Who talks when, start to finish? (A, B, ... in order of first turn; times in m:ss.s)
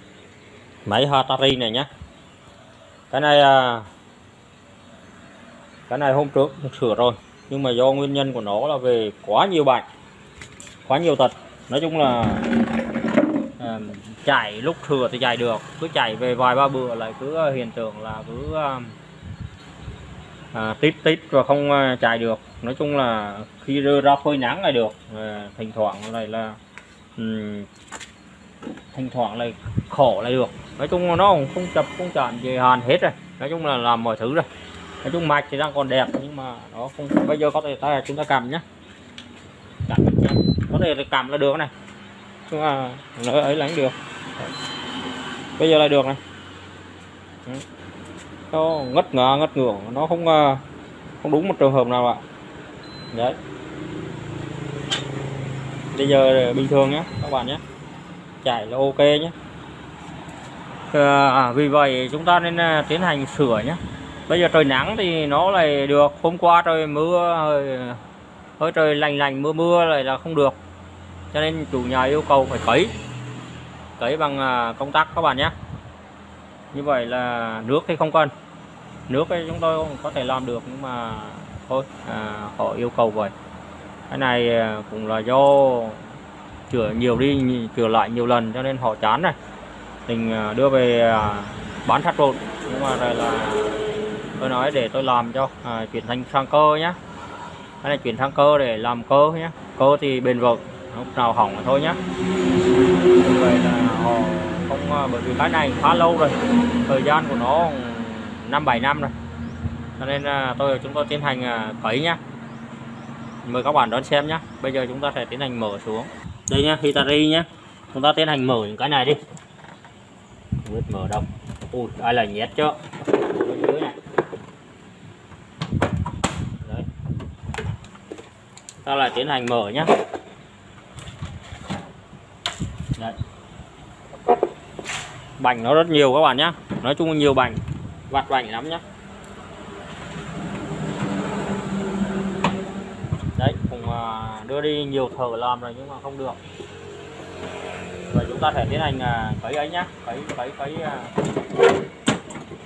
0:00.8-0:01.9 A
0:03.1-0:03.9 A
0:05.9-0:09.9 A
0:10.8-0:12.5 A
0:13.6-0:19.0 A
0:20.5-0:26.6 A
0:27.2-0:27.7 A
0:28.9-0:34.5 A
0:35.0-0:38.6 A
0:39.9-0:41.7 A
0:42.5-0:44.0 A
0:45.6-0:46.2 A
0:48.5-0:50.6 A
0:51.2-0:52.2 A
0:53.1-0:53.4 A
0:55.9-0:57.6 A
0:58.4-0:59.3 A
1:00.9-1:08.0 A
1:08.6-1:10.6 A
1:11.3-1:12.9 A
1:14.0-1:15.5 A
1:16.7-1:18.3 A
1:19.1-1:23.3 A
1:24.1-1:26.1 A
1:26.7-1:29.4 A
1:30.0-1:37.0 A
1:37.8-1:42.0 A
1:43.1-1:46.4 A
1:46.9-1:49.1 A
1:50.0-1:52.2 A
1:53.4-1:59.2 A
2:00.6-2:04.0 A
2:06.6-2:06.9 A
2:08.8-2:09.9 A
2:15.4-2:18.8 A
2:23.4-2:26.4 A
2:28.1-2:31.1 A